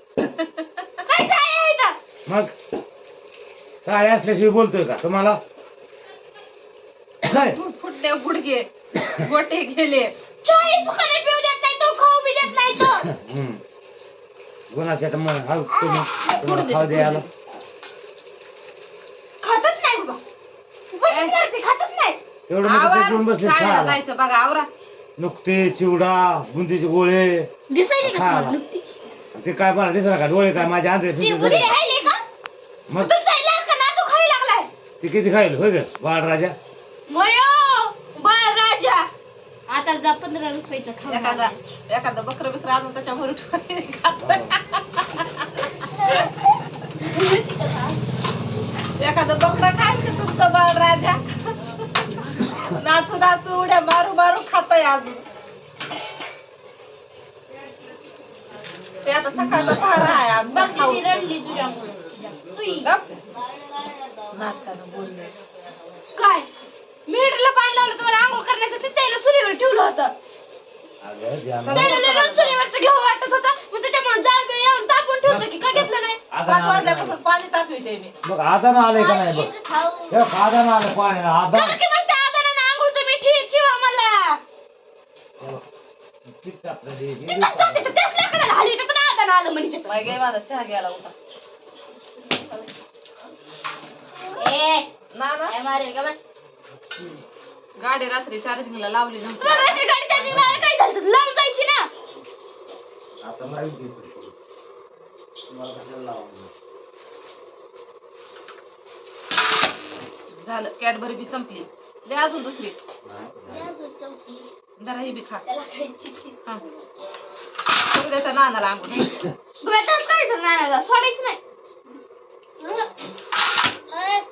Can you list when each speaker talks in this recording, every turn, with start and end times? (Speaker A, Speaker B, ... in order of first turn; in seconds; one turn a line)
Speaker A: 0.2-0.9
Speaker B: 1.1-1.9
Speaker C: 2.2-2.5
Speaker C: 3.8-5.4
Speaker C: 7.2-7.6
Speaker A: 7.3-10.1
Speaker B: 10.4-13.1
Speaker C: 12.8-13.6
Speaker C: 14.7-17.2
Speaker A: 16.2-17.3
Speaker A: 19.4-20.1
Speaker B: 20.9-22.2
Speaker A: 21.1-21.4
Speaker C: 22.5-24.0
Speaker A: 22.6-24.7
Speaker C: 25.2-27.5
Speaker B: 27.7-28.8
Speaker C: 28.0-28.6
Speaker C: 29.3-31.8
Speaker B: 31.2-32.2
Speaker B: 33.0-34.7
Speaker C: 35.0-36.5
Speaker B: 37.1-39.1
Speaker B: 39.7-41.6
Speaker A: 41.1-46.1
Speaker C: 44.2-44.5
Speaker B: 47.1-47.8
Speaker A: 49.0-51.6
Speaker A: 52.6-55.2
Speaker A: 59.0-61.3
Speaker B: 60.5-62.9
Speaker A: 62.8-63.2
Speaker A: 64.3-65.3
Speaker B: 66.2-66.5
Speaker B: 67.1-70.1
Speaker C: 71.0-72.0
Speaker A: 71.6-72.6
Speaker B: 71.7-76.2
Speaker C: 75.2-77.2
Speaker A: 76.4-78.1
Speaker C: 78.2-79.5
Speaker B: 78.9-80.3
Speaker C: 80.1-81.8
Speaker B: 81.5-84.4
Speaker C: 85.4-85.6
Speaker C: 86.3-88.0
Speaker B: 87.3-89.9
Speaker A: 89.8-91.1
Speaker B: 92.3-92.7
Speaker B: 94.4-94.9
Speaker A: 95.1-95.5
Speaker B: 95.5-96.2
Speaker A: 97.8-100.4
Speaker B: 99.4-101.9
Speaker C: 100.3-100.6
Speaker C: 103.2-104.3
Speaker C: 105.5-106.5
Speaker A: 110.4-112.8
Speaker C: 113.0-113.6
Speaker B: 113.5-114.5
Speaker A: 114.8-115.4
Speaker B: 115.5-116.3
Speaker A: 117.9-119.2
Speaker B: 119.6-121.4
Speaker B: 123.9-124.2